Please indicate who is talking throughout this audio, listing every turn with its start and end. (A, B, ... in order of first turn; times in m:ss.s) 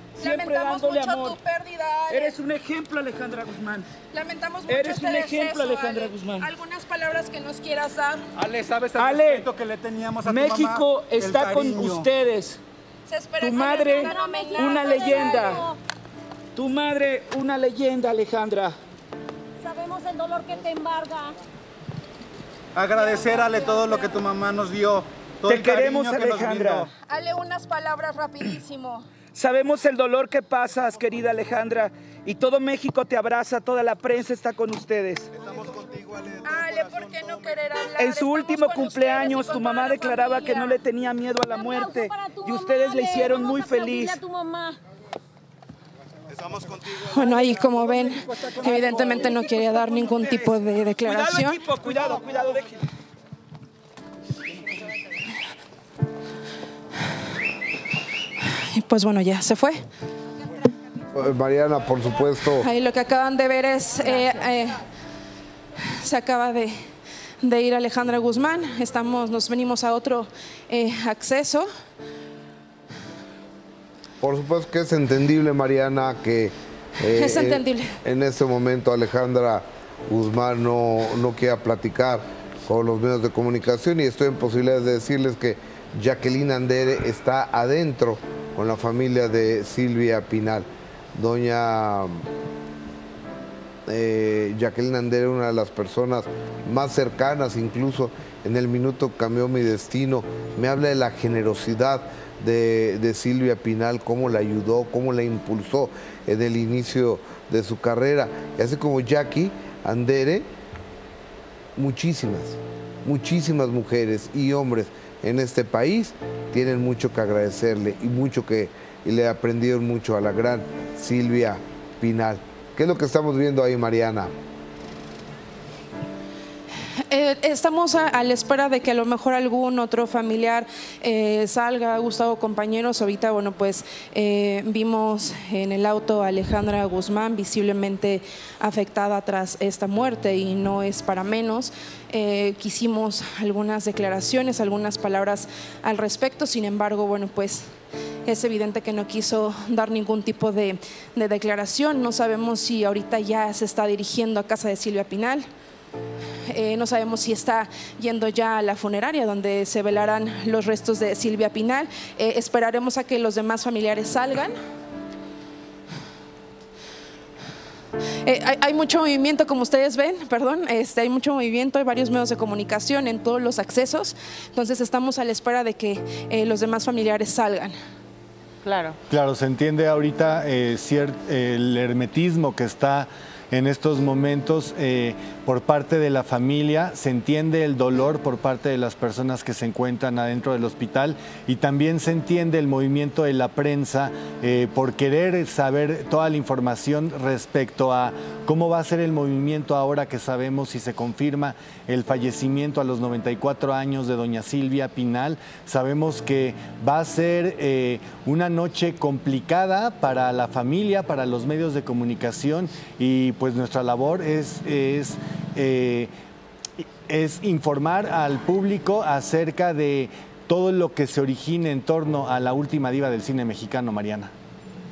0:00.2-0:01.4 A
0:00.2-0:02.4 B
0:02.1-0:03.9 A
0:04.1-0:08.3 B
0:04.7-0:06.5 A
0:08.4-0:12.1 C
0:09.0-0:09.5 A
0:10.2-0:12.6 A
0:13.1-0:15.7 B
0:13.4-0:15.7 A
0:13.9-0:15.2 D
0:16.5-0:18.8 A
0:19.6-0:21.3 D
0:22.7-0:26.9 C
0:23.0-0:24.1 B
0:25.4-0:26.8 A
0:26.9-0:29.0 B
0:29.3-0:35.3 A
0:35.6-0:36.3 C
0:36.3-0:40.8 B
0:38.0-0:44.2 A
0:41.6-0:44.8 D
0:46.9-0:51.6 B
0:48.7-0:49.2 A
0:50.1-0:50.5 A
0:51.0-0:52.8 A
0:58.5-0:59.8 B
1:01.1-1:02.6 E
1:02.6-1:04.8 B
1:05.9-1:06.7 B
1:07.4-1:11.7 B
1:14.2-1:32.3 E
1:17.0-1:18.0 B
1:33.9-1:50.5 E
1:51.8-2:04.3 E
2:07.1-2:27.6 B
2:28.2-2:35.4 B
2:36.5-2:44.5 B
2:48.2-2:57.7 B
2:59.1-3:36.1 F
3:36.8-3:44.3 F